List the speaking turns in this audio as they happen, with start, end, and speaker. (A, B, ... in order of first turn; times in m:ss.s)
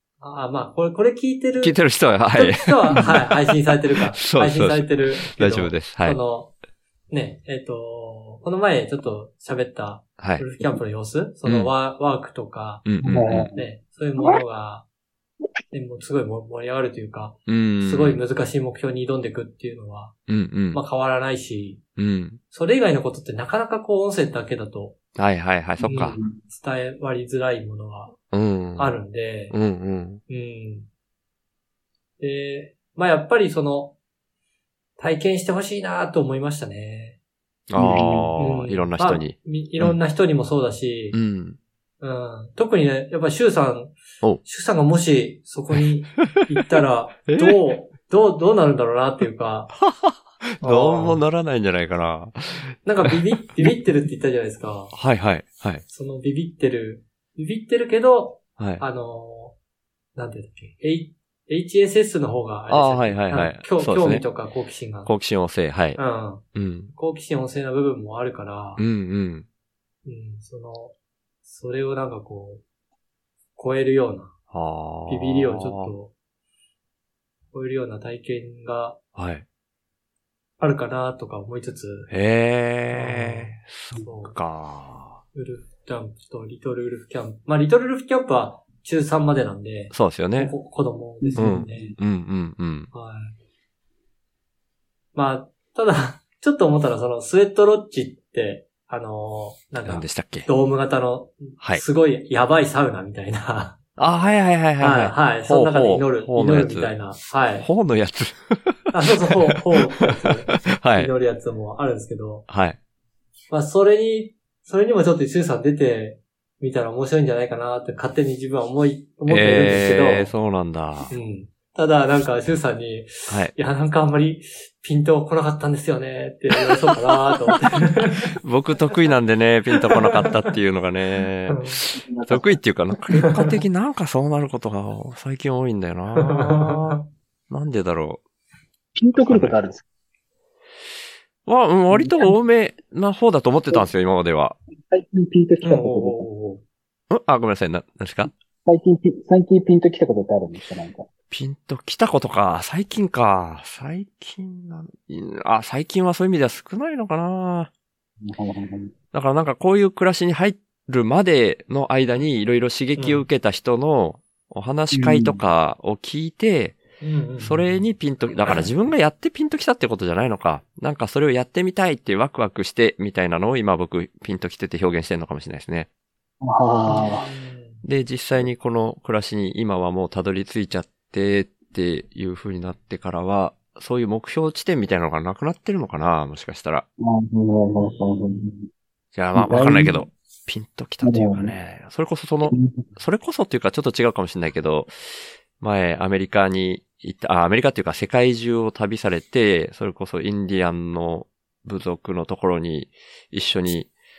0:00.2-0:01.8 A
0:01.6-0:03.2 B
0:02.3-0:06.5 A
0:02.9-0:03.2 C
0:04.1-0:06.2 B
0:07.1-0:14.8 A
0:10.2-0:10.5 B
0:11.4-0:11.7 B
0:12.8-0:13.5 B
0:13.0-0:13.6 C
0:15.7-0:20.1 A
0:17.5-0:18.2 B
0:20.3-0:20.8 B
0:20.7-0:21.8 A
0:22.0-0:22.4 B
0:22.5-0:25.0 A
0:25.2-0:26.2 B
0:25.8-0:26.4 C
0:25.9-0:28.2 A
0:28.3-0:29.0 B
0:28.8-0:29.6 A
0:29.5-0:30.2 B
0:30.3-0:30.9 A
0:32.2-0:33.9 A
0:35.0-0:37.2 A
0:37.7-0:40.0 B
0:37.8-0:38.3 C
0:38.4-0:41.2 A
0:41.1-0:41.6 B
0:42.0-0:49.7 A
0:47.3-0:47.6 B
0:49.7-0:53.1 B
0:50.6-0:51.2 A
0:52.8-0:54.9 A
0:54.9-0:55.8 B
0:55.9-0:59.6 A
0:58.6-0:58.8 B
1:00.1-1:05.1 A
1:02.7-1:04.2 B
1:05.0-1:06.0 B
1:06.0-1:08.8 A
1:06.5-1:06.9 B
1:08.8-1:09.5 B
1:10.0-1:12.6 A
1:13.6-1:14.3 A
1:14.5-1:15.9 B
1:15.1-1:16.1 A
1:17.5-1:19.0 A
1:19.1-1:19.4 B
1:20.6-1:22.1 A
1:22.1-1:25.2 B
1:22.9-1:24.3 A
1:25.3-1:31.9 A
1:29.9-1:30.6 B
1:31.2-1:32.0 C
1:31.4-1:32.9 B
1:32.9-1:33.4 A
1:35.1-1:43.8 A
1:39.8-1:40.5 B
1:44.0-1:46.9 B
1:44.8-1:47.7 A
1:47.6-1:51.1 B
1:48.9-1:52.5 A
1:52.5-1:52.8 B
1:53.5-2:00.3 A
1:59.3-2:01.1 B
2:01.1-2:08.3 A
2:03.3-2:03.5 B
2:08.4-2:18.2 B
2:09.9-2:10.5 A
2:11.5-2:11.8 A
2:11.9-2:12.6 C
2:16.1-2:17.0 A
2:18.9-2:19.8 C
2:19.1-2:19.6 B
2:21.4-2:24.6 B
2:21.9-2:22.3 C
2:24.9-2:26.2 C
2:25.6-2:26.6 A
2:27.1-2:28.3 B
2:28.6-2:31.1 C
2:31.3-2:37.7 B
2:38.2-2:38.9 C
2:39.1-2:46.8 B
2:43.0-2:43.2 A
2:44.9-2:45.4 C
2:47.0-2:47.8 A
2:47.4-2:55.9 B
2:56.4-2:57.3 C
2:56.8-2:57.8 A
2:57.8-3:06.8 B
3:07.0-3:08.7 C
3:07.8-3:08.4 A
3:09.1-3:23.9 B
3:09.3-3:10.0 C
3:11.0-3:11.5 C
3:12.4-3:12.8 C